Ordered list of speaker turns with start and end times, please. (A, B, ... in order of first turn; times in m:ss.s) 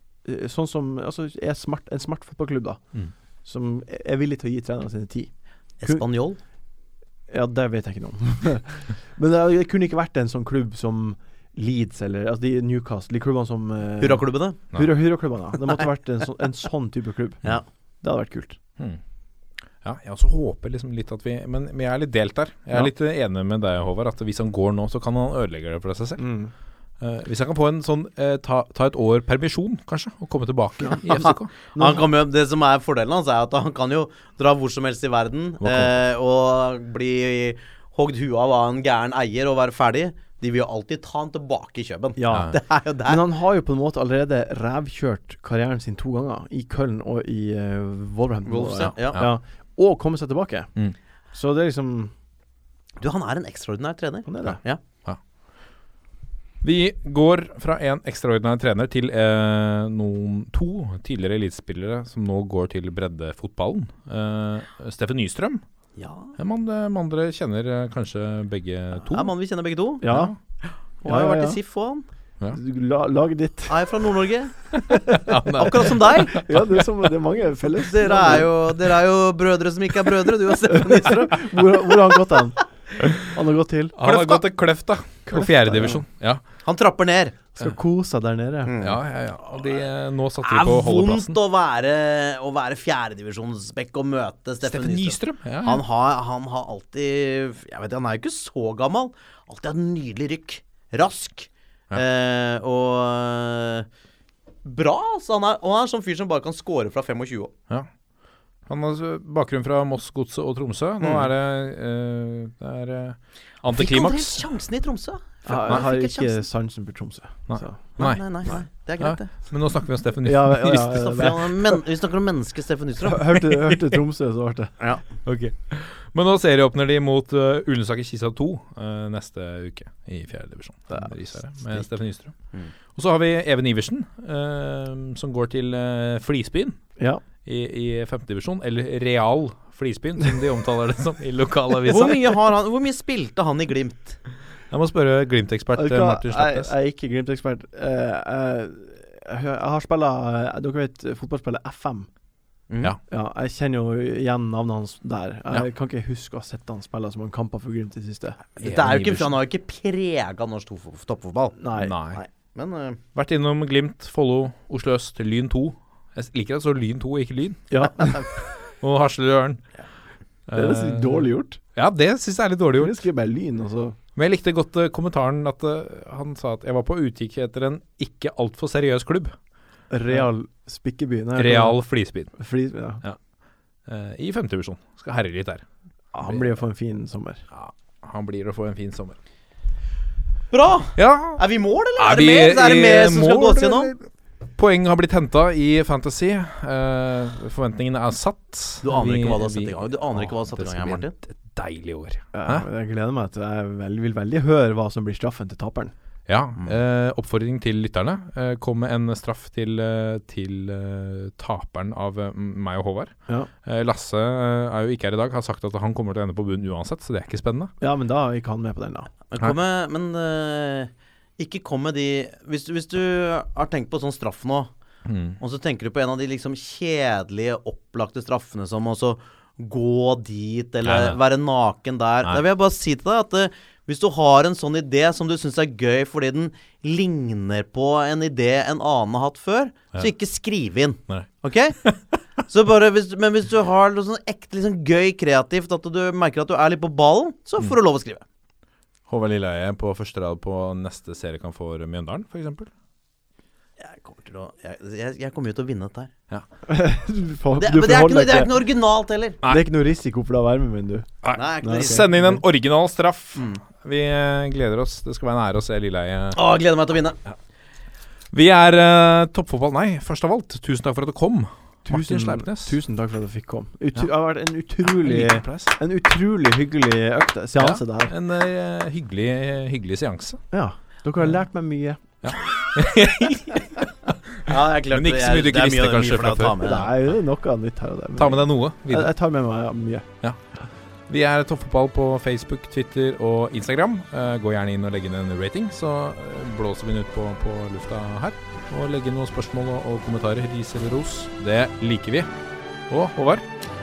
0:00.2-0:02.8 A
0:03.4-0:05.3 A
0:05.8-0:06.4 B
0:07.3-0:17.4 A
0:14.0-0:14.6 B
0:18.0-0:18.6 A
0:19.8-0:26.2 C
0:26.2-0:26.5 A
0:27.0-0:31.5 C
0:30.8-0:32.1 A
0:31.2-0:43.2 B
0:35.6-0:36.0 C
0:42.2-0:50.7 A
0:48.5-0:49.2 B
0:48.8-0:49.4 C
0:51.3-0:52.1 A
0:53.0-0:54.8 B
0:54.3-0:54.6 A
0:56.6-1:05.6 C
1:06.0-1:06.4 B
1:06.4-1:09.3 C
1:09.1-1:10.0 B
1:10.0-1:10.3 A
1:10.0-1:10.4 C
1:11.0-1:12.0 B
1:11.0-1:11.6 A
1:12.5-1:13.8 A
1:13.7-1:14.6 B
1:14.8-1:16.8 C
1:14.9-1:15.7 A
1:15.6-1:16.4 B
1:16.3-1:18.5 A
1:17.8-1:22.0 B
1:20.7-1:22.6 A
1:23.2-1:24.0 A
1:24.0-1:26.4 C
1:24.0-1:24.4 B
1:25.3-1:26.0 A
1:26.6-1:27.4 B
1:27.6-1:28.7 A
1:28.6-1:29.0 B
1:28.8-1:31.4 C
1:30.4-1:43.9 B
1:34.6-1:35.8 C
1:44.6-1:47.5 B
1:48.7-1:54.5 C
1:51.0-1:51.3 B
1:53.6-1:56.5 B
1:55.5-1:58.6 A
1:57.5-2:01.1 C
1:58.0-1:59.3 B
2:00.2-2:01.8 A
2:00.9-2:03.5 B
2:03.0-2:04.7 A
2:05.2-2:12.4 C
2:12.9-2:16.8 C
2:17.4-2:22.4 C
2:21.8-2:24.2 B
2:24.7-2:26.7 C
2:25.8-2:32.1 A
2:32.7-2:33.0 B
2:33.1-2:38.4 A
2:38.6-2:39.4 C
2:38.6-2:43.0 B
2:41.6-2:42.0 A
2:41.8-2:42.2 C
2:43.2-2:47.8 C
2:47.7-2:48.2 A
2:48.4-2:49.6 C
2:50.5-2:53.1 C
2:50.5-2:51.6 A
2:52.8-2:54.0 A
2:54.2-2:59.4 C
2:59.9-3:01.8 A
3:01.4-3:02.3 C
3:02.3-3:03.0 A
3:03.9-3:05.6 C
3:06.1-3:07.4 A
3:06.2-3:06.5 C
3:07.5-3:09.2 C
3:10.5-3:13.9 B
3:11.0-3:11.4 C
3:12.0-3:22.6 C
3:18.8-3:21.1 B
3:22.3-3:25.9 A
3:26.3-3:37.7 C
3:37.8-3:39.1 A
3:39.3-3:44.7 B
3:45.1-3:45.4 C
3:45.4-4:01.8 B
3:50.8-3:51.2 C
4:02.4-4:08.2 B
4:09.1-4:12.7 C
4:13.8-4:16.1 B
4:16.7-4:18.6 A
4:17.6-4:19.4 B
4:19.4-4:21.1 A
4:21.2-4:26.4 C
4:21.3-4:22.1 B
4:21.6-4:22.4 A
4:23.4-4:23.6 B
4:26.3-4:27.2 B
4:28.3-4:32.8 C
4:31.9-4:38.1 A
4:34.9-4:35.8 C
4:37.6-4:40.4 C
4:40.5-4:42.0 A
4:42.2-4:46.6 C
4:44.4-4:46.9 B
4:46.6-4:50.1 A
4:48.2-4:49.1 C
4:51.1-5:02.3 C
5:02.9-5:03.4 C